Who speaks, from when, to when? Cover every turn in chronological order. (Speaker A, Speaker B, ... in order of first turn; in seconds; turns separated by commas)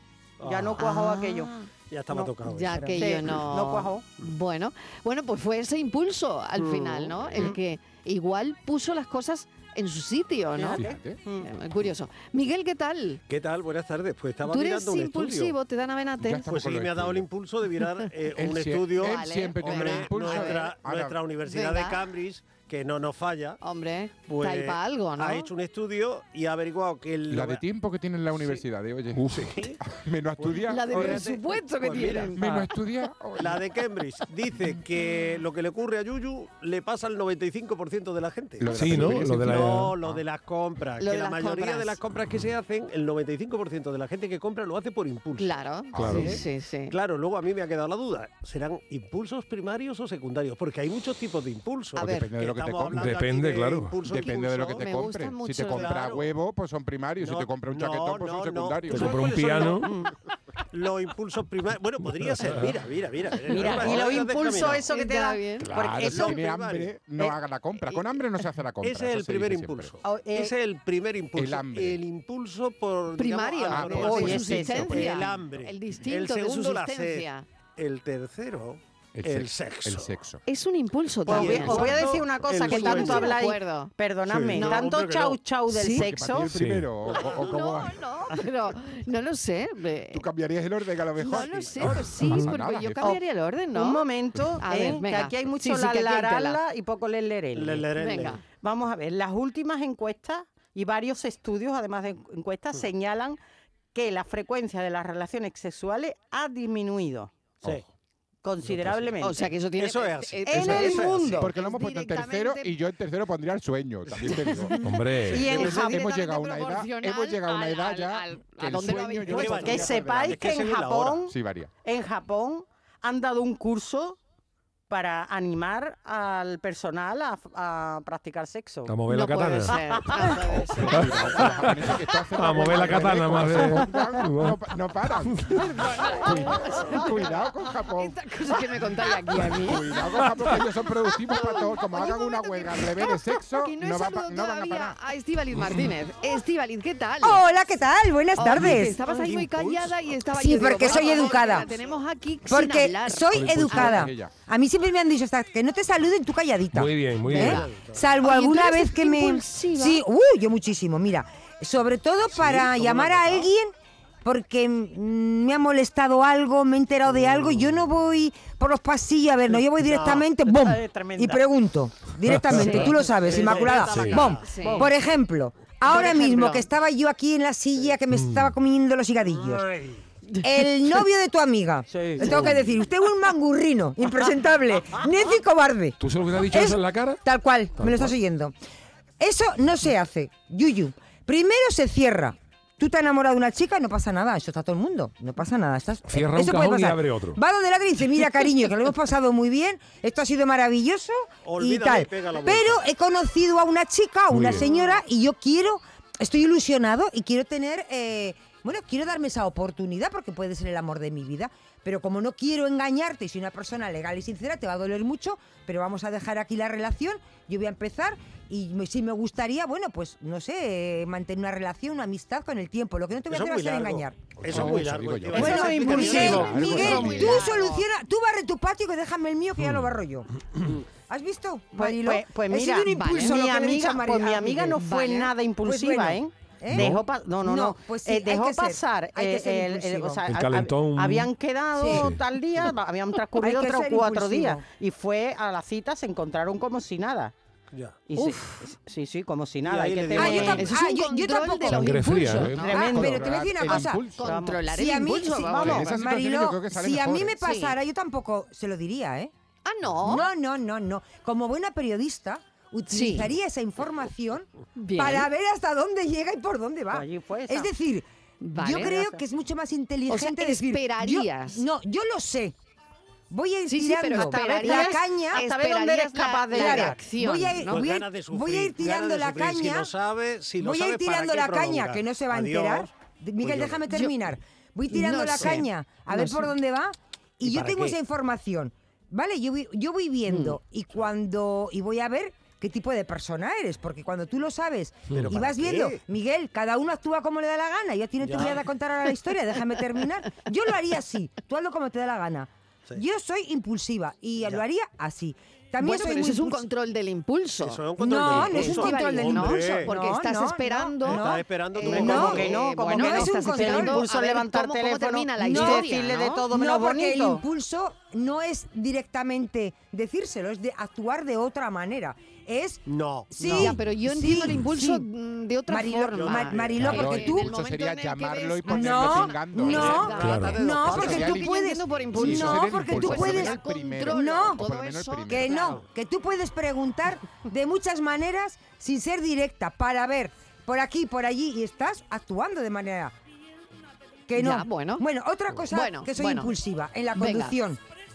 Speaker A: 0.4-0.9, Speaker B: 0.4-1.5, Speaker C: 0.8-1.7, Speaker A: 1.9-3.4, Speaker C: 2.5-10.8, Speaker B: 2.9-4.1, Speaker A: 6.6-7.4, Speaker D: 7.2-7.6, Speaker B: 10.6-11.5, Speaker D: 10.7-11.2, Speaker C: 11.4-13.2, Speaker A: 13.3-15.6, Speaker C: 14.5-16.5, Speaker D: 16.2-17.3, Speaker A: 16.5-23.6, Speaker D: 18.3-21.2, Speaker C: 19.0-20.7, Speaker C: 21.4-22.0, Speaker C: 23.6-25.5, Speaker A: 24.3-27.6, Speaker D: 27.3-31.3, Speaker A: 28.3-28.6, Speaker E: 29.1-29.5, Speaker A: 29.4-29.8, Speaker A: 30.4-32.7, Speaker C: 30.7-32.6, Speaker D: 32.4-33.6, Speaker A: 33.4-45.6, Speaker D: 38.6-40.2, Speaker E: 38.7-39.9, Speaker C: 41.0-42.0, Speaker C: 45.4-46.9, Speaker D: 45.9-46.4, Speaker E: 46.0-46.4, Speaker A: 46.9-54.9, Speaker C: 52.0-52.3, Speaker D: 52.0-53.2, Speaker E: 52.9-54.0, Speaker D: 54.0-59.3, Speaker C: 54.2-56.0, Speaker A: 55.6-56.4, Speaker A: 57.2-60.1, Speaker E: 58.9-59.9, Speaker A: 60.7-64.9, Speaker E: 62.1-62.7, Speaker B: 63.5-66.4, Speaker C: 64.9-65.7, Speaker D: 65.6-70.0, Speaker A: 65.9-67.0, Speaker A: 68.8-80.2, Speaker B: 70.0-70.5, Speaker D: 71.4-72.0, Speaker C: 73.2-77.5, Speaker D: 73.7-75.2, Speaker B: 73.9-75.1, Speaker D: 79.2-80.4, Speaker C: 80.5-83.9, Speaker A: 81.3-83.4, Speaker B: 81.3-86.5, Speaker A: 84.2-85.4, Speaker C: 84.5-84.9, Speaker C: 85.7-86.1, Speaker D: 85.8-88.0, Speaker E: 86.5-86.9, Speaker C: 87.2-90.2, Speaker A: 87.2-87.4, Speaker D: 90.1-93.2, Speaker C: 91.2-94.0, Speaker A: 91.2-92.1, Speaker E: 92.2-92.5, Speaker B: 93.7-103.4, Speaker C: 94.6-96.6, Speaker A: 97.5-98.4, Speaker C: 98.0-98.4, Speaker B: 103.9-107.3, Speaker B: 108.4-109.4, Speaker A: 108.7-109.1, Speaker C: 109.2-112.8, Speaker A: 109.8-111.5, Speaker B: 110.5-111.5, Speaker D: 110.7-114.8, Speaker A: 114.1-114.7, Speaker E: 114.8-115.5, Speaker B: 115.3-116.0, Speaker D: 115.4-120.5, Speaker A: 115.5-115.9, Speaker C: 115.5-119.9, Speaker A: 119.3-121.2, Speaker B: 119.5-124.2, Speaker D: 121.3-121.7, Speaker B: 124.9-128.9, Speaker E: 128.9-129.8, Speaker C: 129.1-131.5, Speaker B: 129.6-130.4, Speaker D: 130.8-135.7, Speaker E: 130.9-134.6, Speaker E: 135.3-135.6, Speaker C: 135.7-137.2, Speaker D: 136.2-138.2, Speaker C: 138.0-140.0, Speaker D: 139.5-145.0, Speaker C: 141.3-147.4, Speaker F: 147.2-149.0, Speaker C: 148.4-154.1, Speaker A: 148.7-152.0, Speaker F: 150.3-151.7, Speaker F: 152.5-163.7, Speaker D: 153.3-154.3, Speaker E: 156.7-157.6, Speaker C: 157.3-157.7, Speaker A: 157.3-158.1, Speaker C: 158.2-160.0, Speaker A: 162.3-163.5, Speaker F: 164.2-179.7, Speaker A: 167.2-167.7, Speaker A: 169.8-170.2, Speaker B: 170.0-171.4, Speaker E: 172.3-172.8, Speaker C: 172.6-172.9, Speaker A: 172.6-174.7, Speaker B: 173.3-173.8, Speaker E: 173.8-174.3, Speaker C: 174.4-174.9, Speaker B: 174.6-174.9, Speaker C: 175.9-176.7, Speaker E: 178.1-178.5, Speaker A: 179.3-180.0, Speaker F: 180.4-186.0, Speaker B: 181.9-182.4, Speaker E: 186.0-187.2, Speaker F: 186.5-188.5, Speaker E: 187.8-188.2, Speaker F: 189.2-224.7, Speaker E: 196.1-197.4, Speaker A: 201.4-202.8, Speaker E: 204.3-204.7, Speaker A: 223.3-227.0, Speaker D: 224.4-227.4, Speaker F: 225.3-230.3, Speaker B: 225.4-227.3, Speaker C: 225.9-227.8, Speaker F: 231.1-235.1, Speaker B: 231.8-247.3, Speaker C: 232.9-233.4, Speaker C: 234.8-235.3, Speaker F: 235.6-240.3, Speaker E: 240.3-241.3, Speaker F: 241.8-242.1, Speaker E: 241.9-242.2, Speaker F: 243.4-244.7, Speaker A: 247.7-248.0, Speaker B: 248.1-250.7, Speaker C: 248.2-248.7, Speaker A: 249.6-250.7, Speaker F: 250.2-254.1, Speaker C: 250.2-252.6, Speaker E: 251.7-252.7, Speaker D: 252.4-254.4, Speaker B: 252.6-254.6, Speaker C: 254.1-255.9, Speaker F: 254.7-259.3, Speaker B: 255.4-255.9, Speaker D: 255.6-257.4, Speaker C: 257.4-257.8, Speaker C: 259.6-260.3, Speaker F: 260.0-272.6, Speaker C: 262.9-263.3, Speaker C: 264.8-265.3, Speaker B: 266.9-267.7, Speaker C: 268.4-268.9, Speaker B: 268.7-269.2, Speaker C: 270.1-271.6, Speaker F: 273.3-275.4, Speaker C: 273.7-277.8, Speaker B: 274.1-277.0, Speaker F: 276.5-279.9, Speaker A: 277.7-283.9, Speaker F: 280.6-306.7, Speaker C: 283.9-284.1, Speaker C: 284.9-286.5, Speaker A: 287.4-288.0, Speaker C: 290.3-290.6, Speaker A: 295.1-296.0, Speaker A: 298.2-298.6, Speaker C: 305.8-316.5, Speaker A: 307.6-309.9, Speaker F: 308.0-314.1, Speaker A: 311.0-312.5, Speaker B: 311.9-317.4, Speaker F: 315.4-315.9, Speaker F: 316.5-325.1, Speaker A: 322.9-323.7, Speaker C: 323.4-335.8, Speaker F: 325.7-327.5, Speaker A: 326.1-327.1, Speaker D: 326.8-330.1, Speaker F: 328.7-334.6, Speaker A: 329.6-331.4, Speaker E: 330.2-330.6, Speaker D: 330.9-331.5, Speaker D: 332.1-335.7, Speaker F: 335.3-343.1, Speaker F: 344.3-347.8, Speaker C: 344.4-345.0, Speaker C: 345.7-346.5, Speaker C: 347.1-347.6